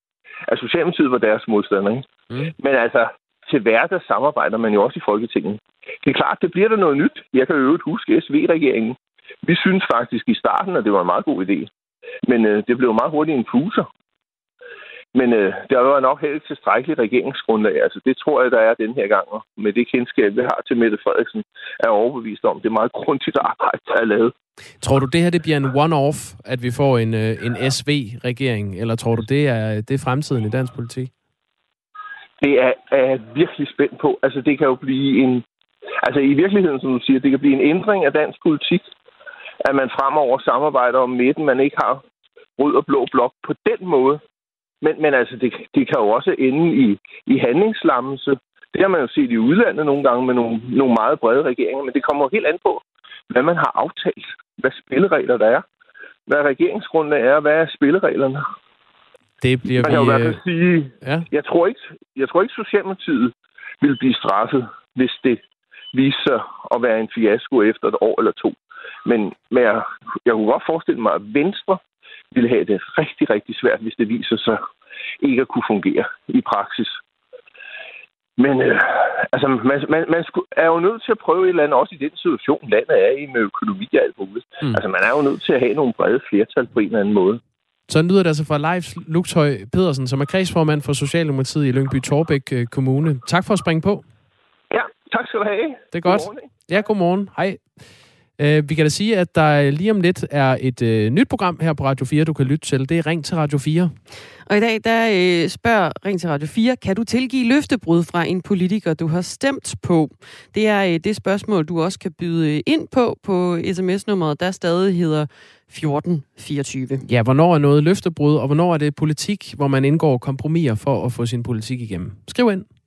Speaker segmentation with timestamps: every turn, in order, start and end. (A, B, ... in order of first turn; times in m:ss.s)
0:00.5-0:11.7 A
0:12.2-0:13.9 A
0:15.1-0:24.3 A
0:24.8-0:31.1 B
0:32.4-0:35.4 A
0:36.0-0:38.8 A
0:39.6-0:42.0 A
0:42.6-0:44.2 A
0:44.8-0:55.6 A
0:56.3-0:58.4 A
0:59.4-1:00.4 B
0:59.8-1:05.4 A
1:01.0-1:01.3 B
1:05.9-1:11.8 A
1:12.3-1:14.6 A
1:15.2-1:17.0 A
1:18.4-1:27.4 A
1:27.9-1:34.0 B
1:34.7-1:36.5 A
1:35.9-1:37.6 B
1:38.4-1:43.9 B
1:44.5-1:57.0 C
1:57.0-2:02.6 B